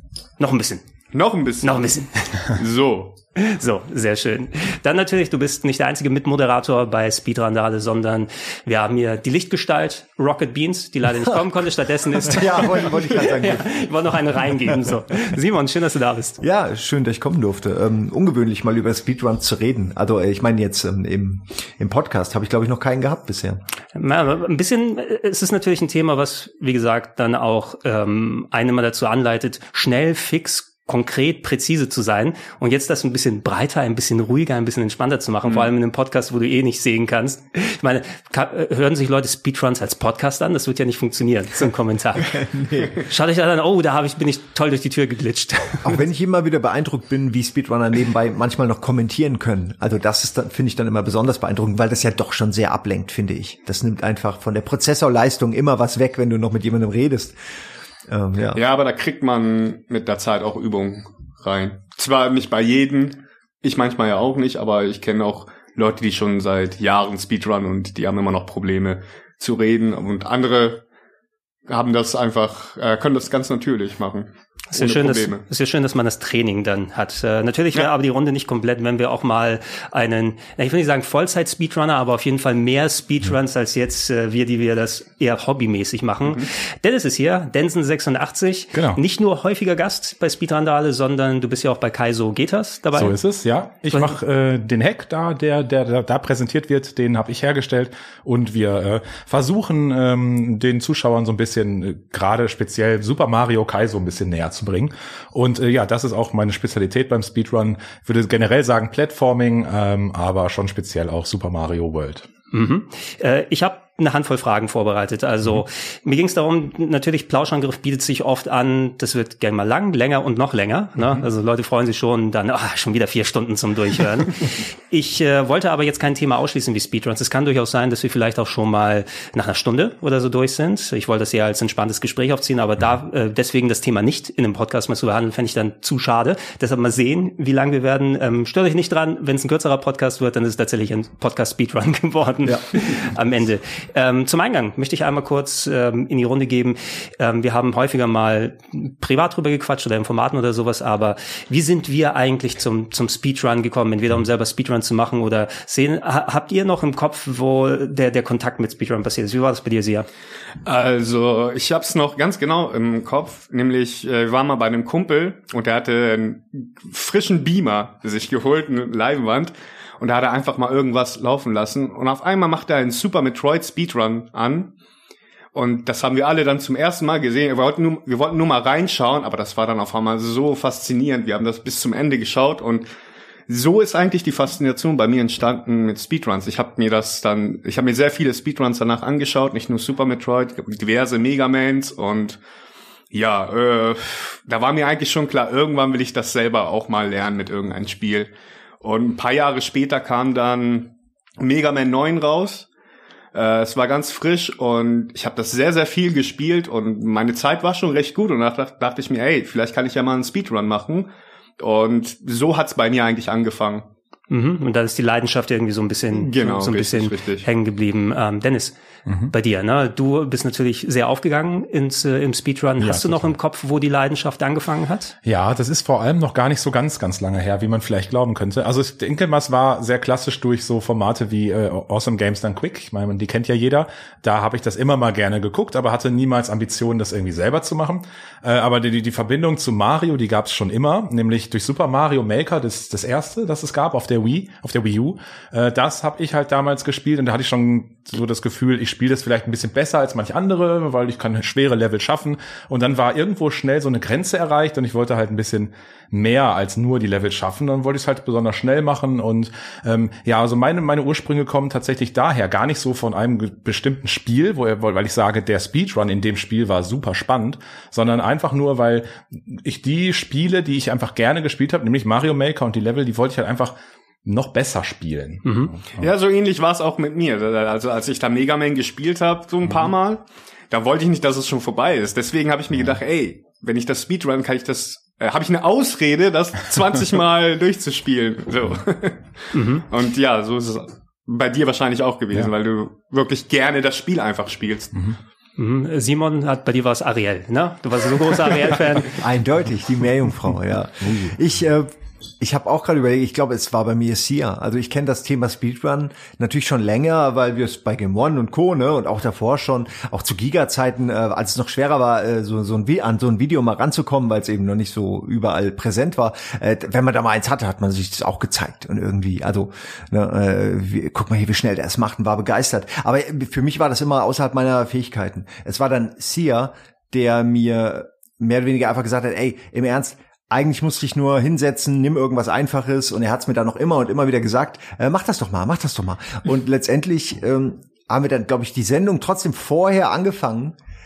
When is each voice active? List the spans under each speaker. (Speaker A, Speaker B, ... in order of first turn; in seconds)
Speaker A: 0.4-0.8, 1.6-2.5, 3.4-16.4, 23.9-42.4, 42.9-45.9, 74.7-93.2, 93.9-94.2, 112.5-160.1, 214.3-218.8, 219.3-225.1, 275.4-275.7, 289.5-289.9, 295.6-299.2
Speaker B: 1.1-1.9, 2.5-3.2, 58.5-70.8, 71.7-75.4, 160.7-174.7, 175.5-182.8, 183.5-192.4, 193.1-198.3, 198.8-202.7, 203.3-213.9, 216.1-217.5, 276.0-295.0
Speaker C: 12.2-13.8, 16.4-23.6, 42.2-43.0, 45.8-57.4, 58.1-58.6, 299.1-340.8
Speaker D: 88.7-89.0, 93.0-112.3, 219.1-219.3, 222.8-223.3, 225.3-273.7, 274.2-276.1, 301.0-301.3